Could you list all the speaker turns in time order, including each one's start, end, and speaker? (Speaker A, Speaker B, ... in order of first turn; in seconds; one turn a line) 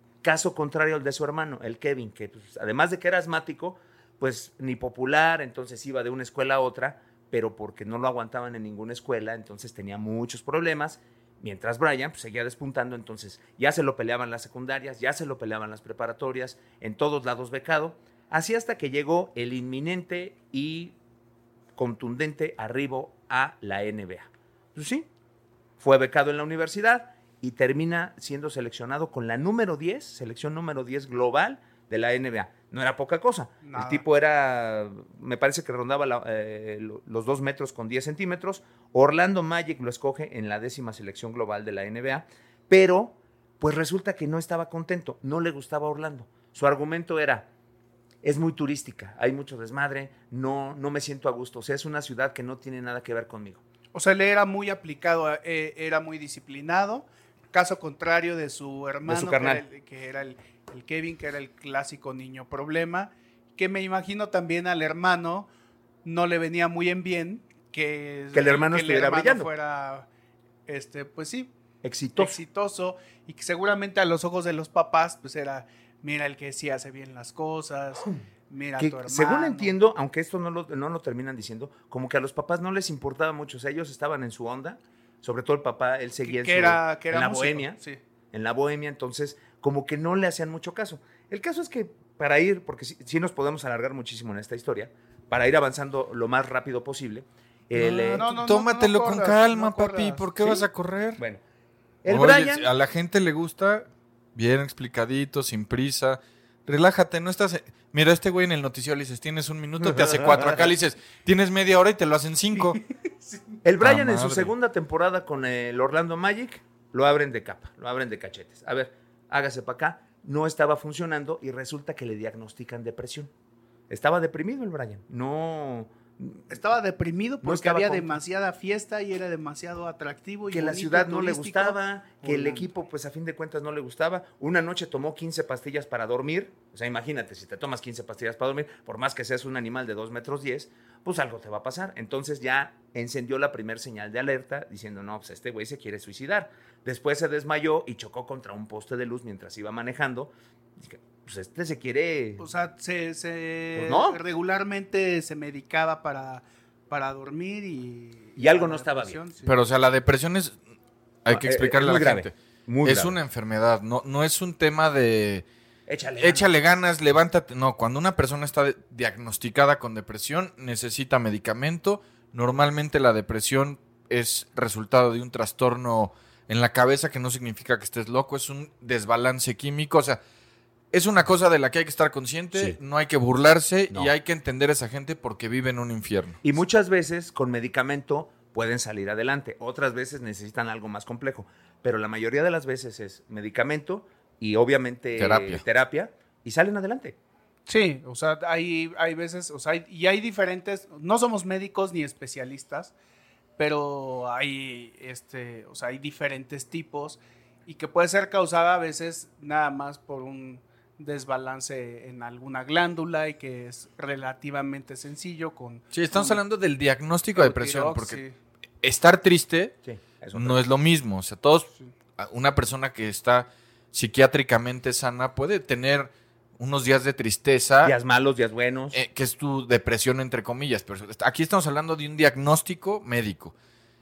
Speaker A: 0.2-20.9
Speaker A: 21.8-25.1
Speaker A: 25.8-47.5
Speaker B: 33.6-34.0
Speaker A: 48.2-53.6
Speaker B: 53.9-65.5
Speaker A: 59.1-59.6
Speaker B: 66.0-70.0
Speaker A: 68.3-69.5
Speaker B: 70.7-71.5
Speaker A: 71.8-72.4
Speaker B: 72.2-79.7
Speaker A: 78.8-87.8
Speaker B: 86.2-88.0
Speaker A: 88.3-98.2
Speaker C: 97.7-101.2
Speaker B: 98.1-100.3
Speaker A: 102.0-102.7
Speaker C: 102.1-112.8
Speaker A: 109.8-110.7
Speaker B: 112.6-113.6
Speaker A: 113.6-123.3
Speaker C: 113.8-114.5
Speaker A: 123.9-126.5
Speaker B: 126.5-132.7
Speaker A: 127.4-128.2
Speaker A: 130.5-152.4
Speaker B: 152.4-159.5
Speaker A: 153.8-154.2
Speaker A: 158.4-159.2
Speaker C: 159.4-160.6
Speaker C: 161.2-165.4
Speaker A: 161.3-163.2
Speaker A: 165.9-166.5
Speaker C: 166.2-180.2
Speaker C: 180.9-186.4
Speaker A: 186.4-197.2
Speaker C: 195.1-195.6
Speaker B: 197.7-202.9
Speaker B: 203.6-216.4
Speaker C: 215.9-218.2
Speaker B: 217.3-218.3
Speaker C: 218.8-219.7
Speaker A: 219.8-220.6
Speaker C: 220.3-227.9
Speaker A: 227.8-229.0
Speaker C: 228.9-233.5